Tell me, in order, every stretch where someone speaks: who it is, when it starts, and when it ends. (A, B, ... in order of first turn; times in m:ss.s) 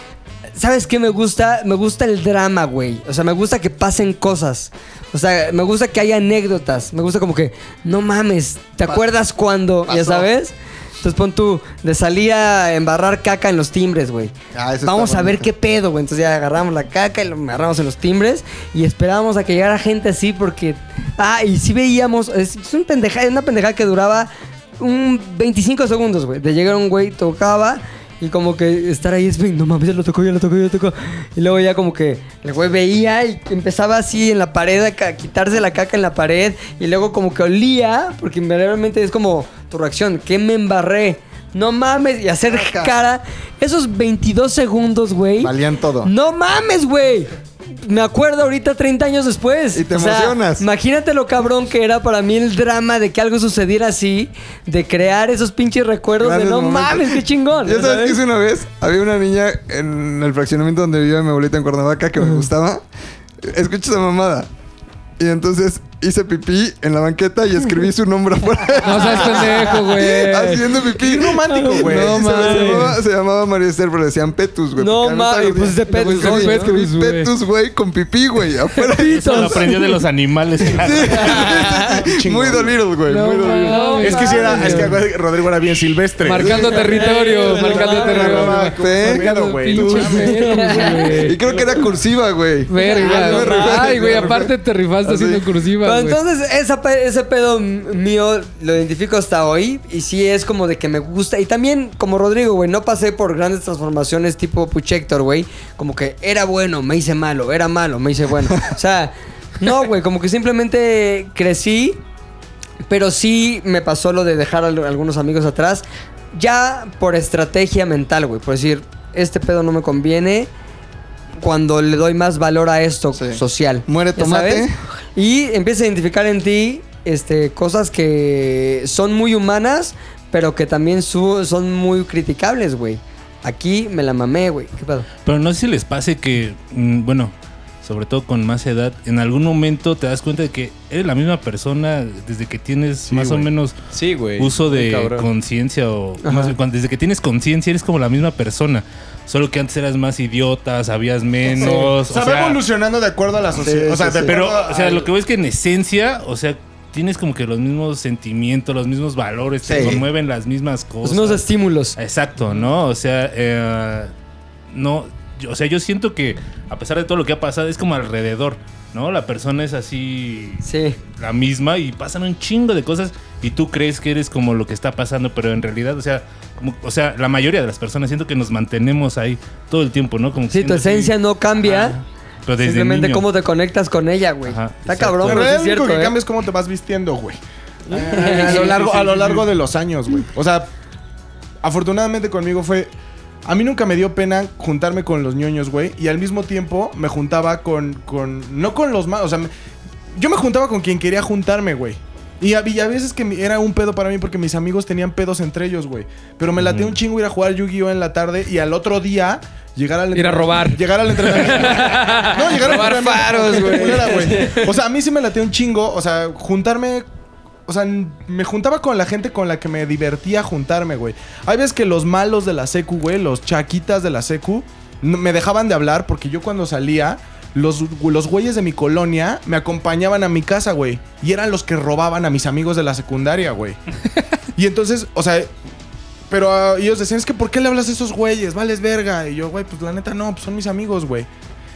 0:00.5-0:58.2 A
0:09.8-0:10.3 B
0:14.5-0:15.5 B
0:42.4-0:42.9 B
0:45.4-0:46.1 B
0:49.7-0:50.6 B
0:56.2-1:02.8 B
1:03.4-1:04.5 B
1:05.2-1:20.0 B
1:08.8-1:10.7 C
1:10.9-1:12.7 D
1:11.6-1:12.9 C
1:12.0-1:12.9 A
1:14.8-1:16.7 A
1:15.9-1:17.3 C
1:19.0-1:19.7 A
1:19.1-1:21.6 E
1:20.6-1:23.9 B
1:21.2-1:21.8 A
1:21.2-1:22.8 D
1:23.0-1:25.0 C
1:23.4-1:24.8 A
1:24.0-1:30.8 D
1:24.5-1:24.9 B
1:26.2-1:31.4 C
1:26.4-1:35.5 B
1:26.5-1:28.5 A
1:30.5-1:31.1 A
1:31.4-1:31.7 D
1:32.7-1:36.2 C
1:32.7-1:34.3 A
1:35.8-1:52.0 A
1:52.8-2:00.5 A
2:01.4-2:15.0 A
2:03.1-2:04.7 B
2:15.2-2:23.8 E
2:23.1-2:25.3 F
2:24.4-2:32.6 E
2:26.2-2:26.6 A
2:31.6-2:31.9 A
2:31.6-2:34.6 D
2:33.6-2:35.1 B
2:34.3-2:41.4 E
2:39.6-2:40.0 B
2:41.0-2:42.0 A
2:42.0-2:44.1 E
2:44.7-2:50.6 E
2:50.6-2:51.0 A
2:51.2-3:03.3 E
3:00.5-3:02.0 A
3:02.6-3:06.2 A
3:04.5-3:05.5 E
3:05.2-3:10.7 D
3:07.9-3:09.2 A
3:08.3-3:09.2 F
3:11.6-3:12.9 D
3:13.4-3:19.5 D
3:20.2-3:37.0 D
3:26.6-3:26.9 E
3:30.1-3:34.6 C
3:32.6-3:34.6 A
3:37.7-3:53.8 D
3:54.6-3:55.5 D
3:56.3-4:01.3 D